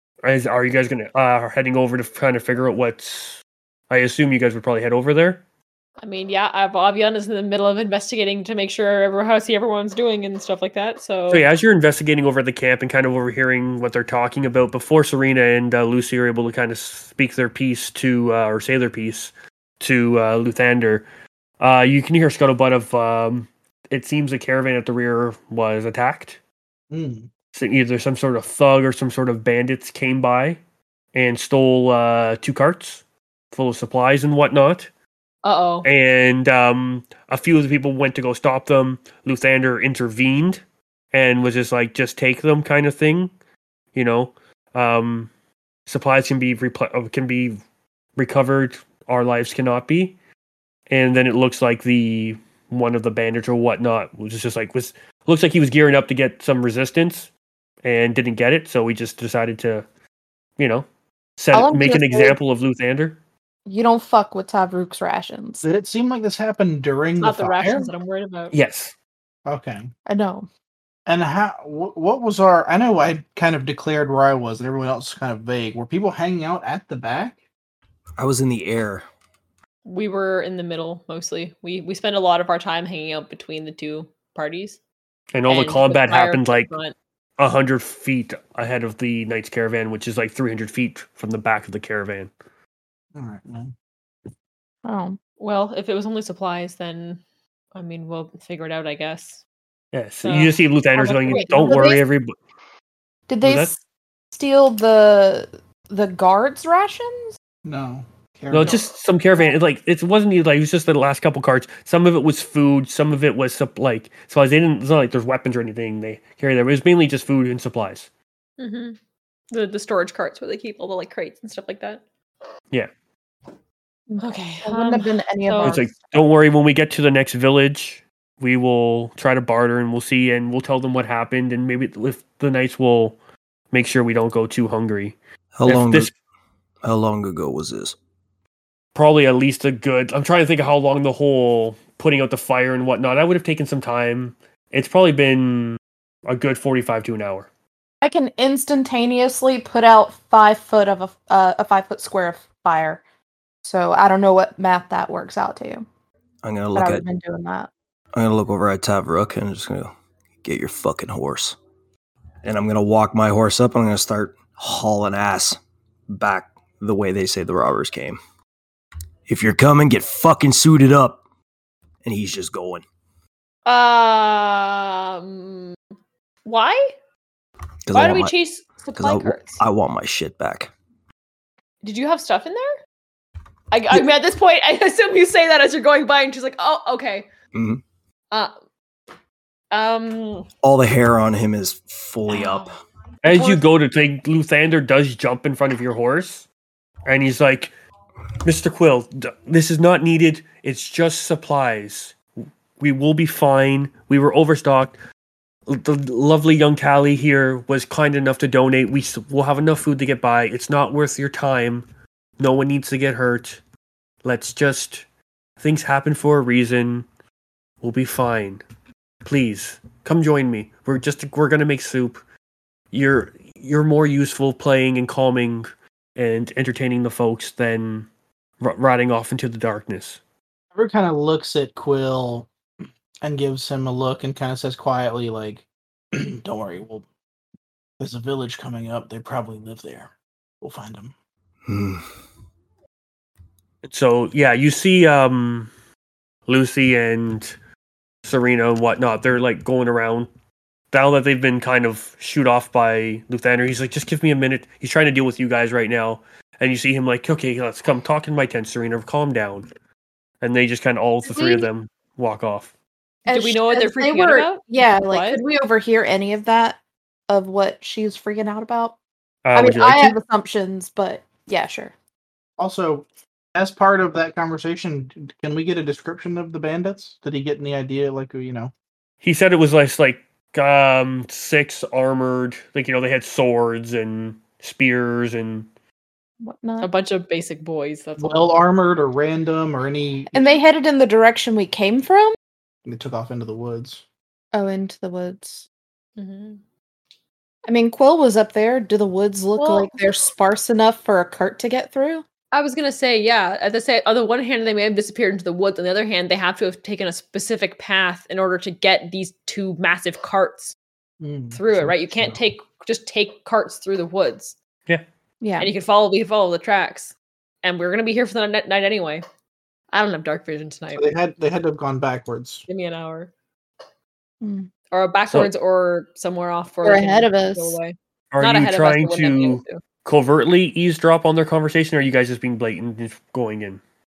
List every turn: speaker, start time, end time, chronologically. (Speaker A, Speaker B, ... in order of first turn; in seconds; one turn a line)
Speaker A: 0.2-5.4
Speaker B: 6.0-11.4
Speaker A: 11.3-21.1
Speaker A: 21.6-26.4
Speaker C: 26.9-27.3
Speaker A: 27.5-30.6
Speaker A: 31.1-34.9
Speaker B: 35.4-35.9
Speaker A: 35.8-40.6
Speaker A: 41.1-43.3
Speaker A: 43.9-45.3
Speaker A: 45.9-47.6
Speaker A: 48.1-50.1
Speaker A: 50.9-57.3
Speaker A: 57.8-59.8
Speaker A: 60.6-60.9
Speaker A: 61.4-63.2
Speaker D: 61.5-62.4
Speaker D: 63.6-65.6
Speaker C: 65.6-67.9
Speaker B: 67.2-68.5
Speaker A: 68.5-68.9
Speaker C: 69.5-69.9
Speaker D: 70.0-70.5
Speaker C: 71.1-77.4
Speaker E: 78.2-79.0
Speaker B: 79.8-84.8
Speaker A: 85.3-86.7
Speaker B: 85.5-86.9
Speaker A: 87.4-92.3
Speaker C: 93.1-93.7
Speaker D: 94.8-95.2
Speaker B: 95.4-97.2
Speaker B: 97.7-99.4
Speaker A: 99.9-102.3
Speaker B: 100.2-100.5
Speaker D: 101.0-102.0
Speaker D: 103.3-103.8
Speaker A: 103.4-103.7
Speaker D: 104.3-107.3
Speaker C: 107.6-108.8
Speaker A: 108.5-118.1
Speaker B: 118.6-119.0
Speaker B: 119.5-122.0
Speaker D: 124.1-125.9
Speaker B: 124.2-125.8
Speaker A: 125.6-133.2
Speaker A: 133.7-136.1
Speaker E: 135.6-136.1
Speaker E: 136.8-137.9
Speaker A: 138.9-147.5
Speaker D: 148.0-153.0
Speaker D: 153.6-155.8
Speaker E: 156.4-157.0
Speaker D: 156.7-157.7
Speaker E: 158.1-161.6
Speaker E: 162.4-168.2
Speaker E: 169.3-171.2
Speaker E: 172.0-172.8
Speaker B: 173.7-175.8
Speaker B: 176.4-176.9
Speaker E: 177.8-178.3
Speaker B: 177.9-179.6
Speaker E: 178.9-180.7
Speaker B: 181.8-182.7
Speaker B: 183.7-187.3
Speaker E: 187.5-187.8
Speaker B: 189.7-190.5
Speaker E: 190.6-192.7
Speaker B: 192.3-192.7
Speaker A: 193.2-196.4
Speaker B: 193.3-193.6
Speaker A: 197.0-197.7
Speaker A: 198.4-202.2
Speaker A: 202.8-204.9
Speaker A: 205.7-211.8
Speaker A: 212.4-213.6
Speaker A: 214.2-215.0
Speaker A: 215.6-217.1
Speaker A: 217.8-218.6
Speaker A: 219.2-222.2
Speaker A: 222.9-228.1
Speaker A: 228.6-230.2
Speaker C: 230.7-232.5
Speaker C: 233.2-237.0
Speaker C: 238.0-241.1
Speaker E: 241.7-242.0
Speaker A: 243.8-245.7
Speaker A: 246.5-247.5
Speaker A: 248.2-250.3
Speaker A: 250.9-259.7
Speaker A: 260.4-262.7
Speaker D: 261.2-261.7
Speaker D: 263.2-266.8
Speaker B: 263.3-265.4
Speaker D: 267.3-268.9
Speaker A: 269.4-270.2
Speaker D: 269.5-271.9
Speaker C: 272.6-278.7
Speaker A: 279.2-285.7
Speaker D: 286.4-286.9
Speaker B: 286.8-288.6
Speaker C: 288.2-290.6
Speaker D: 290.3-292.4
Speaker C: 292.8-294.0
Speaker D: 294.5-295.6
Speaker B: 296.2-296.6
Speaker D: 297.7-302.2
Speaker B: 299.6-300.0
Speaker B: 302.5-310.7
Speaker C: 311.2-312.4
Speaker B: 311.5-314.6
Speaker D: 315.4-315.7
Speaker B: 315.6-319.2
Speaker B: 319.9-321.1
Speaker C: 320.9-322.6
Speaker B: 322.7-323.3
Speaker D: 324.4-324.7
Speaker B: 324.9-329.8
Speaker D: 326.8-327.8
Speaker A: 328.3-333.8